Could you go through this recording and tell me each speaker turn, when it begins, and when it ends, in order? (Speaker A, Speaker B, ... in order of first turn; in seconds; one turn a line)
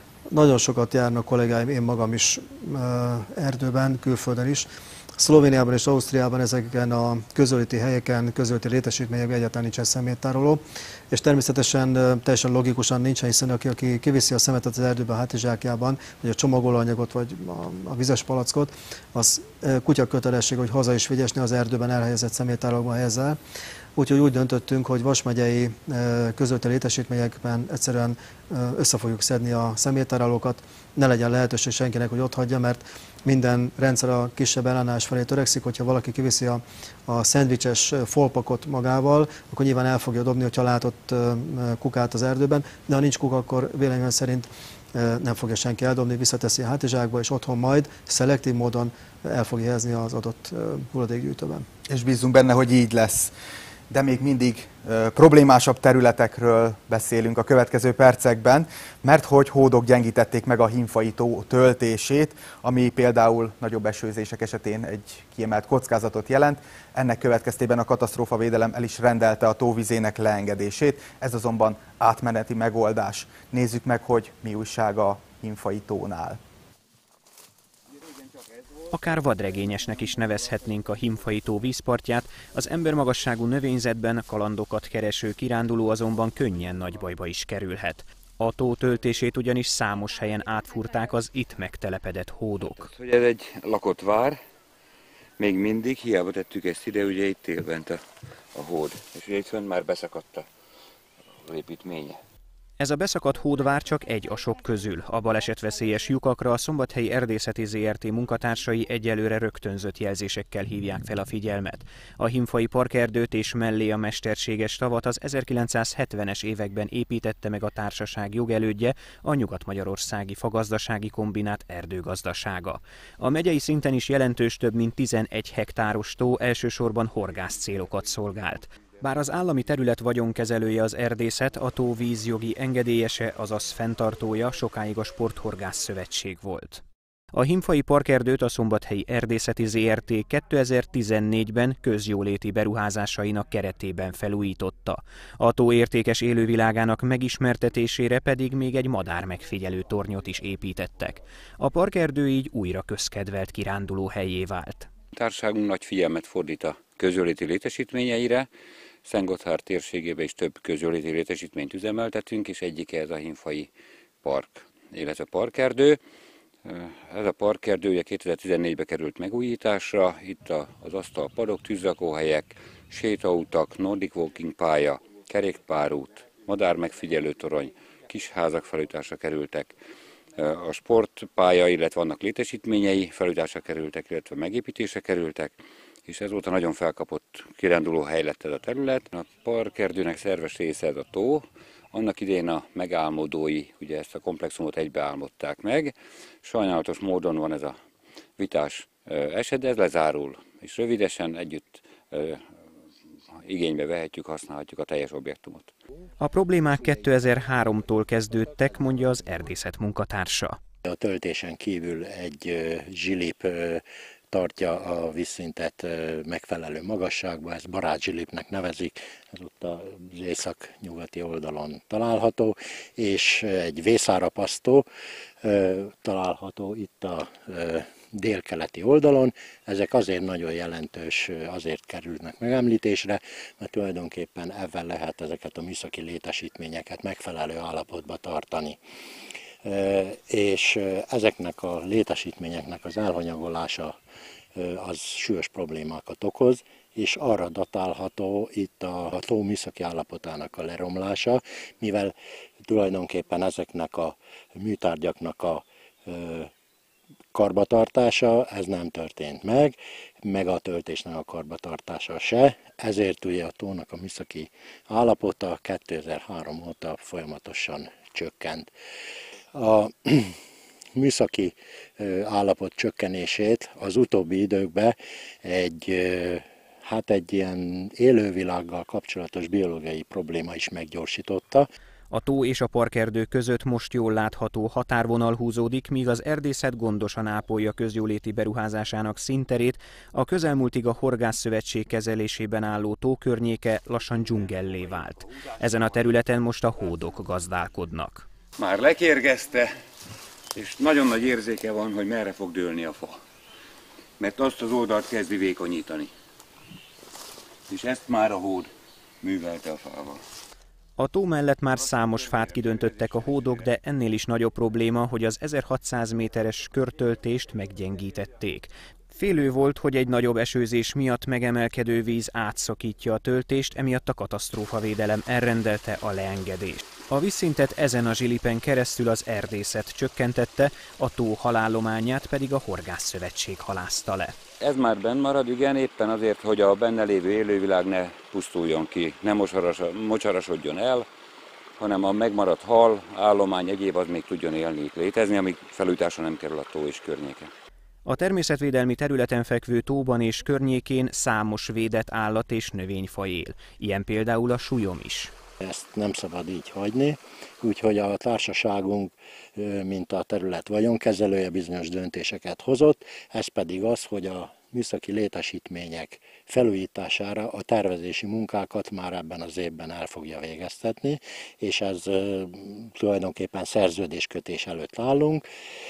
Speaker A: 0.3-23.4
Speaker A: 24.0-51.7
Speaker B: 51.9-53.3
Speaker B: 53.9-76.4
Speaker C: 78.9-92.9
Speaker D: 92.9-94.4
Speaker D: 95.4-98.0
Speaker D: 98.5-100.5
Speaker D: 101.5-102.2
Speaker C: 102.8-136.8
Speaker C: 137.3-154.9
Speaker D: 155.1-158.5
Speaker D: 159.1-163.7
Speaker D: 164.2-166.0
Speaker D: 166.7-179.7
Speaker D: 180.4-185.6
Speaker D: 186.1-197.8
Speaker D: 198.4-202.4
Speaker D: 203.4-205.7
Speaker C: 206.2-210.6
Speaker E: 210.8-224.9
Speaker E: 225.4-238.8
Speaker E: 239.6-244.0
Speaker E: 244.6-252.1
Speaker E: 252.7-256.5
Speaker E: 257.3-268.7
Speaker E: 269.5-270.4
Speaker E: 271.0-281.7
Speaker C: 282.1-298.3
Speaker D: 298.6-299.7
Speaker D: 300.6-303.2
Speaker D: 304.2-306.1
Speaker D: 307.7-308.7
Speaker D: 309.2-310.2
Speaker C: 311.0-334.4
Speaker D: 334.6-341.1
Speaker D: 341.8-347.5
Speaker C: 348.1-355.3
Speaker E: 355.6-375.4